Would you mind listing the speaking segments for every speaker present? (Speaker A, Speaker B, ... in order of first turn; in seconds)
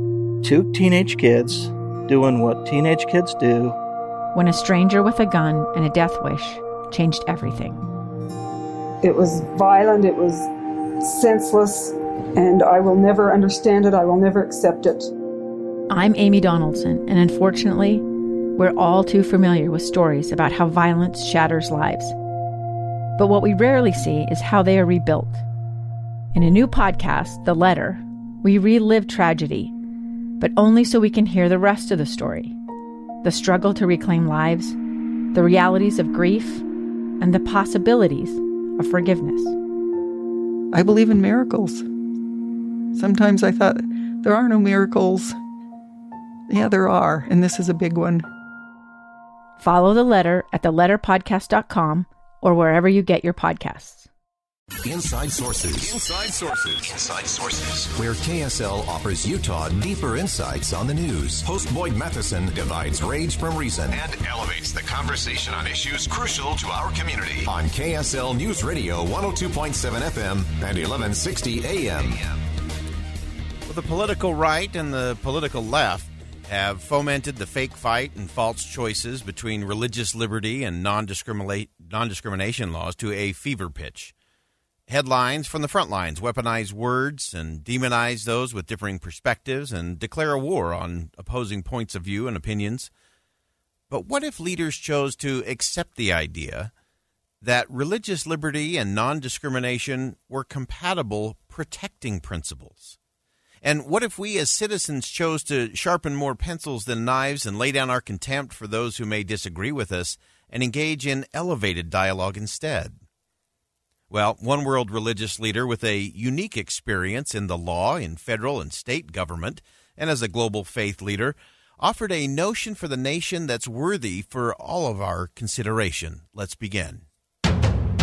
Speaker A: 0.4-3.7
Speaker B: 4.3-7.8, 15.9-18.0, 18.6-22.2, 23.2-25.4, 26.3-29.7, 30.4-32.6, 33.2-34.8, 35.3-36.6, 37.2-39.5, 49.6-54.1
Speaker C: 9.0-10.5, 11.0-15.1
Speaker D: 40.7-41.9, 42.9-45.4, 46.5-48.3
Speaker E: 54.8-72.3
Speaker F: 73.7-84.1, 84.9-92.9, 93.9-96.7, 97.4-103.0, 103.6-113.0, 114.1-127.0